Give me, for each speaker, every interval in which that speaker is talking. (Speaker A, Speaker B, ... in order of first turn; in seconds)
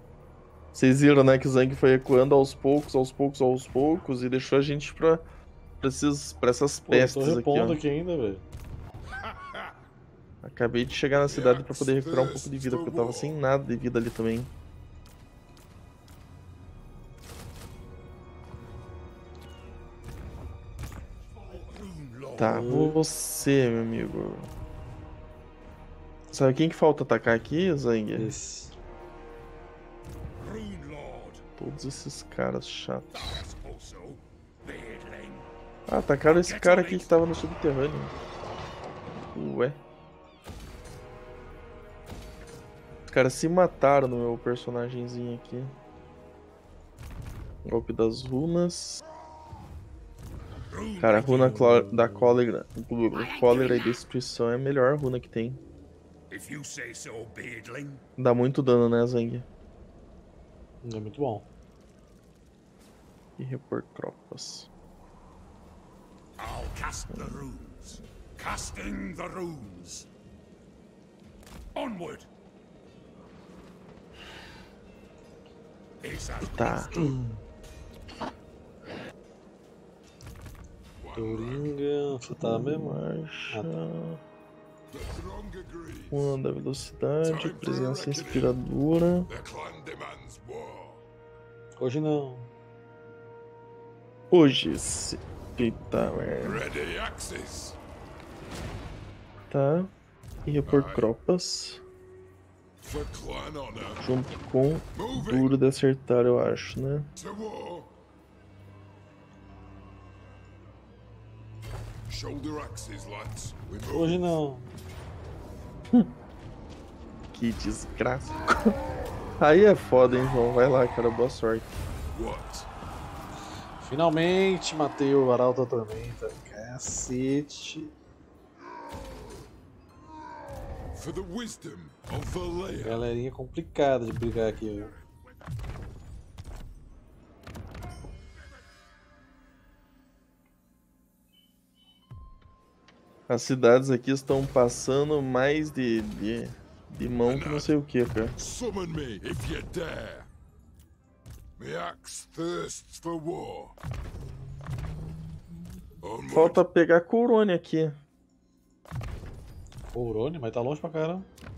Speaker A: 0.7-5.2, 5.8-7.8, 10.4-14.5, 22.4-24.5, 26.3-28.3, 31.6-33.4, 35.9-38.1, 39.3-39.8, 43.1-45.7, 47.6-49.0, 51.0-55.6, 58.2-59.5, 63.4-64.7, 67.1-67.4, 76.4-77.2, 82.2-84.2, 86.1-89.3, 94.3-96.6, 99.5-99.9, 100.4-101.8, 104.0-107.1, 117.3-118.7, 119.4-121.7, 143.3-148.3, 156.3-158.0
Speaker B: 6.9-8.4, 22.4-23.0, 28.1-28.7, 51.3-52.4, 60.8-61.5, 81.1-83.8, 91.8-92.5, 113.8-114.7, 123.8-127.9, 132.8-134.9, 159.9-161.3
Speaker C: 9.2-9.8, 11.2-13.3, 21.3-22.7, 30.4-31.4, 33.1-35.5, 36.2-37.2, 50.7-51.6, 53.1-54.0, 56.3-58.0, 66.4-70.1, 71.7-72.3, 76.0-77.1, 81.0-81.7, 84.9-86.2, 87.2-88.5, 89.3-91.0, 96.4-97.8, 100.7-101.1, 102.8-104.0, 105.0-105.5, 107.2-107.9, 112.1-114.4, 122.1-122.7, 130.9-133.0, 147.2-147.7, 148.4-150.3, 151.6-153.7, 156.0-156.6